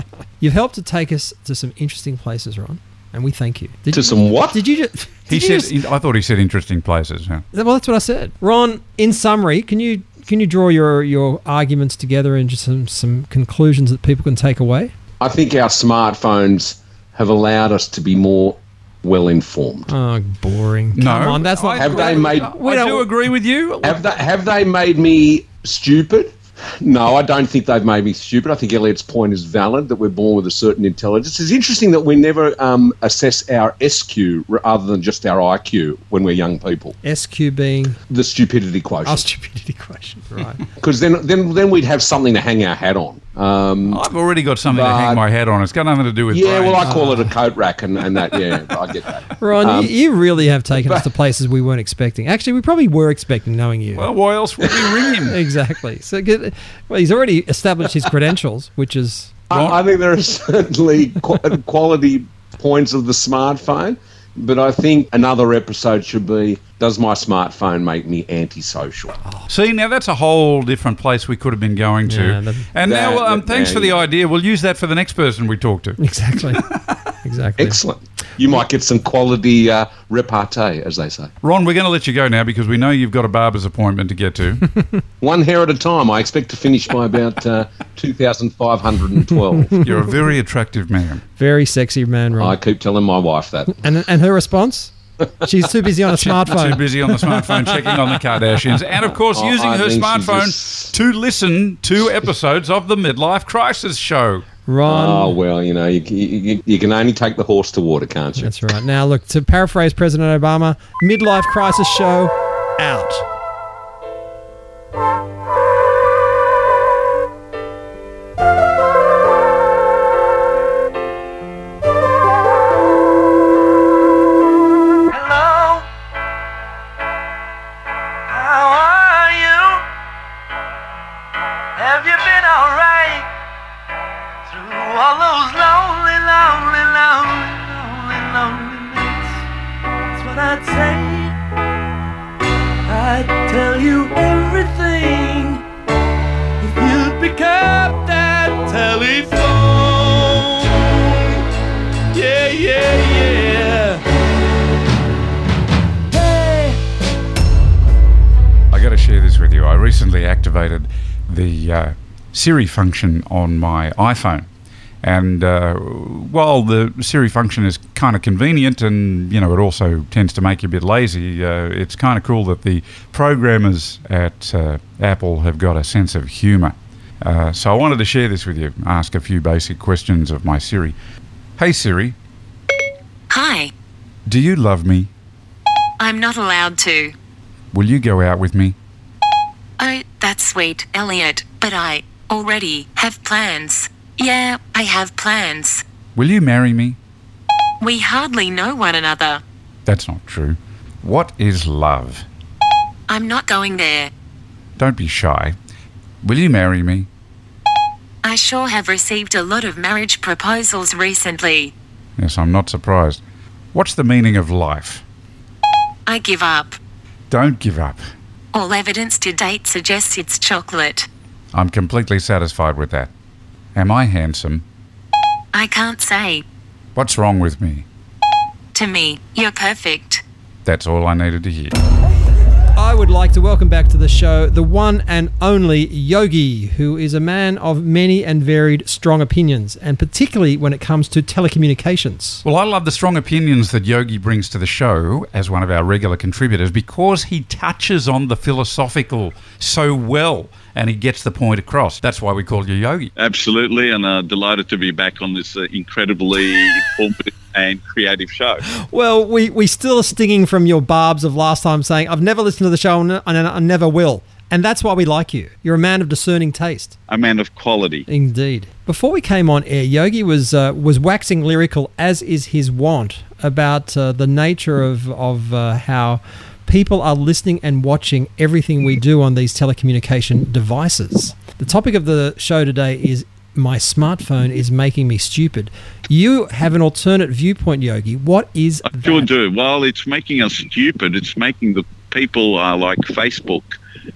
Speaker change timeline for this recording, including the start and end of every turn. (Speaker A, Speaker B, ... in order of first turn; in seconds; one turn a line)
Speaker A: 0.4-5.8
Speaker B: 3.9-4.6
Speaker C: 5.3-7.4
Speaker A: 7.5-14.9
Speaker B: 15.2-19.9
Speaker A: 19.9-23.1
Speaker C: 20.9-24.0
Speaker B: 21.7-22.6
Speaker B: 23.8-37.0
Speaker A: 37.0-38.0
Speaker B: 38.1-39.3
Speaker A: 39.1-40.6
Speaker B: 40.8-44.0
Speaker C: 43.9-47.0
Speaker B: 44.7-45.2
Speaker B: 46.3-49.9
Speaker A: 46.8-47.3
Speaker A: 49.4-54.1
Speaker C: 54.0-55.4
Speaker B: 54.6-55.0
Speaker A: 55.3-59.4
Speaker B: 59.5-69.2
Speaker C: 59.5-59.8
Speaker C: 69.5-76.0
Speaker A: 72.1-72.7
Speaker B: 72.8-74.0
Speaker A: 76.0-76.6
Speaker A: 77.2-77.8
Speaker B: 77.6-81.3
Speaker C: 81.4-84.7
Speaker B: 85.2-89.8
Speaker A: 89.5-89.8
Speaker C: 89.8-91.2
Speaker A: 91.4-92.6
Speaker B: 92.4-93.8
Speaker A: 93.8-94.9
Speaker A: 95.4-97.8
Speaker C: 96.2-104.5
Speaker B: 99.3-100.9
Speaker A: 104.7-105.3
Speaker B: 104.8-108.7
Speaker A: 108.4-113.2
Speaker D: 125.1-125.9
Speaker D: 128.3-129.8
Speaker D: 131.8-133.3
Speaker D: 134.5-139.4
Speaker D: 140.1-141.3
Speaker D: 142.9-145.6
Speaker D: 146.6-151.4
Speaker D: 152.1-154.1
Speaker D: 156.1-156.8
Speaker C: 158.7-164.5
Speaker C: 165.0-181.0
Speaker C: 181.6-182.2
Speaker E: 183.3-183.7
Speaker C: 184.3-185.1
Speaker E: 186.0-187.1
Speaker C: 187.7-188.8
Speaker E: 189.8-195.8
Speaker C: 196.2-197.0
Speaker E: 197.8-199.4
Speaker C: 199.9-202.3
Speaker E: 203.1-204.1
Speaker C: 204.8-205.6
Speaker C: 206.2-207.1
Speaker E: 208.2-211.7
Speaker C: 212.2-213.2
Speaker C: 213.7-215.0
Speaker E: 216.1-216.8
Speaker C: 217.3-218.0
Speaker E: 218.5-221.1
Speaker C: 221.5-223.1
Speaker C: 223.8-224.6
Speaker E: 225.5-226.4
Speaker C: 226.9-227.8
Speaker E: 228.7-230.2
Speaker C: 230.7-231.8
Speaker A: 232.8-242.4
Speaker C: 242.4-253.1
Speaker F: 253.2-258.6
Speaker A: 258.8-267.0
Speaker F: 267.1-268.1
Speaker A: 268.1-289.3
Speaker F: 288.9-293.7